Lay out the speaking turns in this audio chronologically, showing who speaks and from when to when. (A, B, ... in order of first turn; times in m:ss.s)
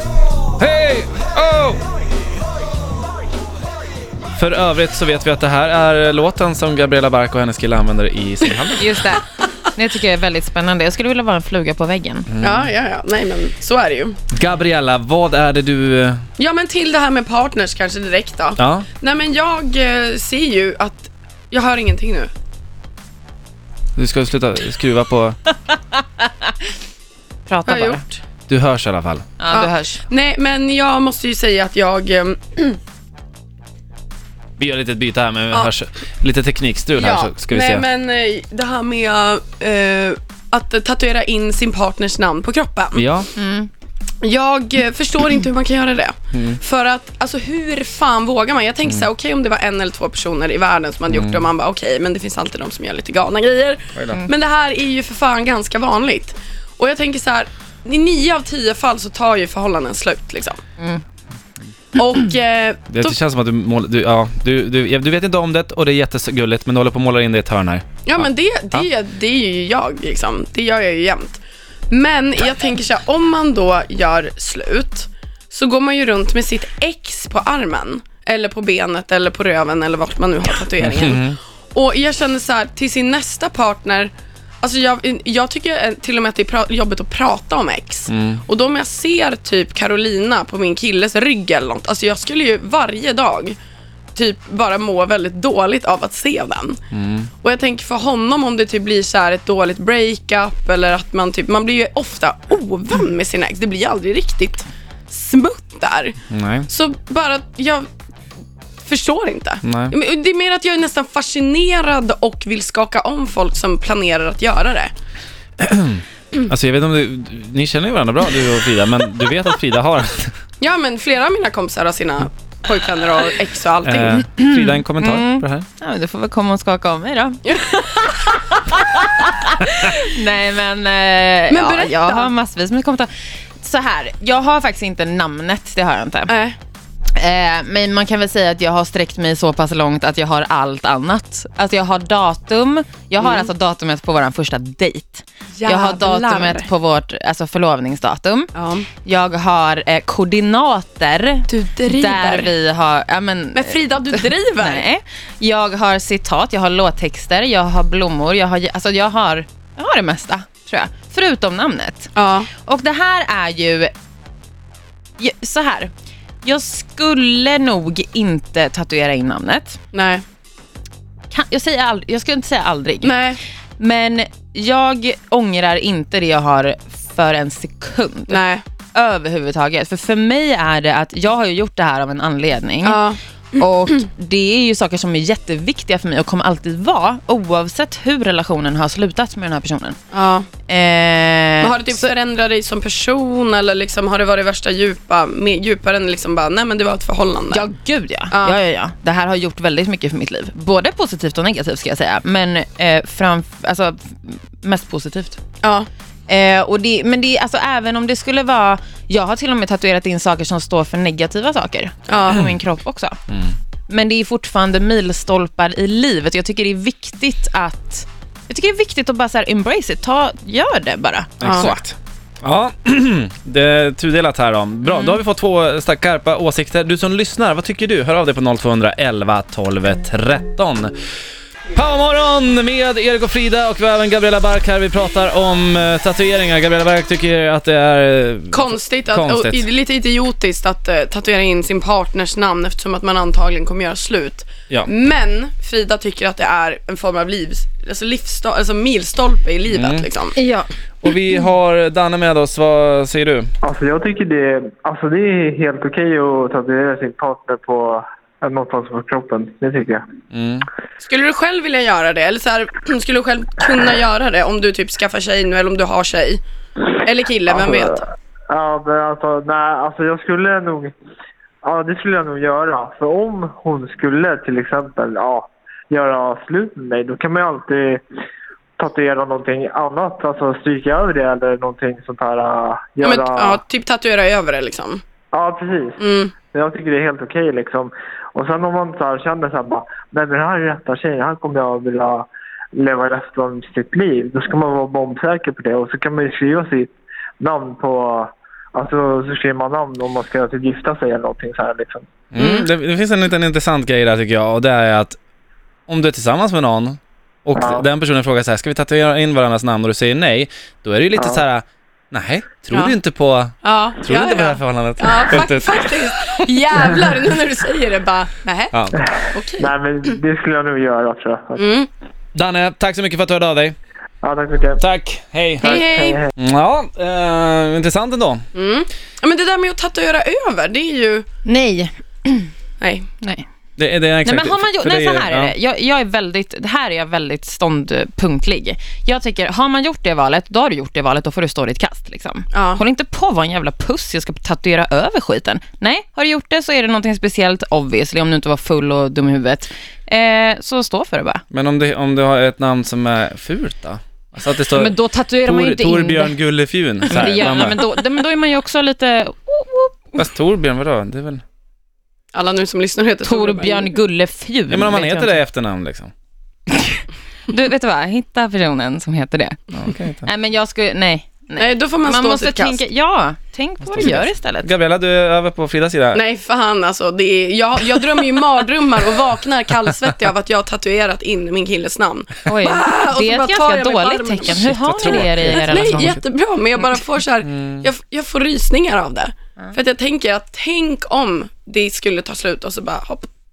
0:00.6-0:01.8 A
0:04.4-0:08.9 A
0:08.8-0:12.3 B
0:12.3-0:12.6 A
0:12.4-0:14.2 C
0:14.3-0:16.2 A
0:16.4-0:22.3 C
0:18.6-0:18.9 A
0:24.0-0:25.4 A
0:27.5-0:28.0 B
0:27.6-0:28.1 C
0:28.5-0:29.3 A
0:29.4-0:30.0 B
0:29.5-0:32.8 C
0:34.6-0:37.8 A
0:37.0-0:43.0 C
0:42.9-0:43.3 A
0:43.4-0:43.7 B
0:44.2-1:00.6 C
0:46.3-0:46.6 A
0:51.1-0:51.5 A
0:53.9-0:54.2 A
1:02.0-1:03.1 C
1:02.9-1:08.8 A
1:08.0-1:33.6 C
1:20.8-1:21.4 A
1:28.1-1:28.4 A
1:34.1-1:36.8 C
1:36.9-1:37.3 A
1:37.4-1:46.2 C
1:46.3-1:46.7 A
1:46.7-1:47.9 C
1:48.8-1:54.9 C
1:49.6-1:49.9 A
1:55.6-2:00.3 A
2:00.6-2:04.2 C
2:03.8-2:05.7 A
2:04.2-2:13.1 B
2:11.5-2:12.3 C
2:13.6-2:16.3 B
2:16.3-2:16.6 C
2:17.2-2:43.9 B
2:23.2-2:23.5 C
2:25.6-2:26.7 C
2:28.5-2:28.9 C
2:31.5-2:32.5 C
2:33.5-2:34.9 C
2:42.1-2:42.5 C
2:45.2-2:45.9 B
2:46.4-2:49.8 B
2:49.9-2:50.2 C
2:51.3-2:53.2 B
2:53.0-2:53.4 C
2:53.8-3:10.0 B
2:58.3-2:58.6 C
3:02.8-3:03.2 C
3:10.1-3:10.5 C
3:10.7-3:12.1 B
3:11.6-3:17.7 C
3:17.5-3:25.4 B
3:18.3-3:18.6 C
3:25.6-3:25.9 C
3:26.3-3:33.2 B
3:32.1-3:32.5 C
3:33.3-3:33.5 A
3:33.9-3:41.8 B
3:41.4-3:50.9 A
3:41.4-3:41.7 C
3:44.8-3:45.2 B
3:51.7-3:59.7 A
3:58.5-4:10.4 C
4:09.7-4:10.1 A
4:10.3-4:10.7 B
4:11.0-4:13.5 A
4:13.6-4:20.0 D
4:20.3-4:20.7 A
4:21.0-4:26.4 C
4:26.9-4:28.1 C
4:27.5-4:28.0 D
4:28.5-4:30.9 D
4:31.6-4:38.0 D
4:38.8-4:43.6 D
4:43.0-4:45.0 C
4:45.3-4:46.0 D
4:46.0-4:46.3 C
4:46.5-5:02.0 D
5:02.3-5:05.2 A
5:02.4-5:02.7 C
5:05.9-5:15.7 A
5:07.6-5:07.8 D
5:11.2-5:11.4 D
5:12.7-5:13.0 C
5:13.6-5:19.7 C
5:18.7-5:19.0 A
5:19.6-5:21.6 D
5:21.6-5:21.9 C
5:22.3-5:23.8 A
5:24.2-5:24.8 D
5:24.8-5:25.8 A
5:25.6-5:26.3 D
5:25.6-5:26.2 C
5:26.4-5:28.4 A
5:28.5-5:31.2 C
5:31.4-5:32.5 B
5:32.8-5:33.1 C
5:33.2-5:33.4 B
5:33.8-5:35.5 A
5:34.2-5:51.4 B
5:42.5-5:42.8 C
5:51.5-5:57.8 A
5:54.7-5:56.4 B
5:57.1-6:00.1 B
6:00.2-6:01.4 A
6:02.3-6:03.9 C
6:03.2-6:05.4 B
6:04.7-6:06.1 A
6:06.7-6:09.6 B
6:09.7-6:10.3 A
6:10.2-6:14.7 B
6:11.6-6:12.8 C
6:13.8-6:16.2 A
6:16.1-6:33.3 C
6:22.5-6:26.2 B
6:24.5-6:26.2 A
6:27.4-6:27.9 A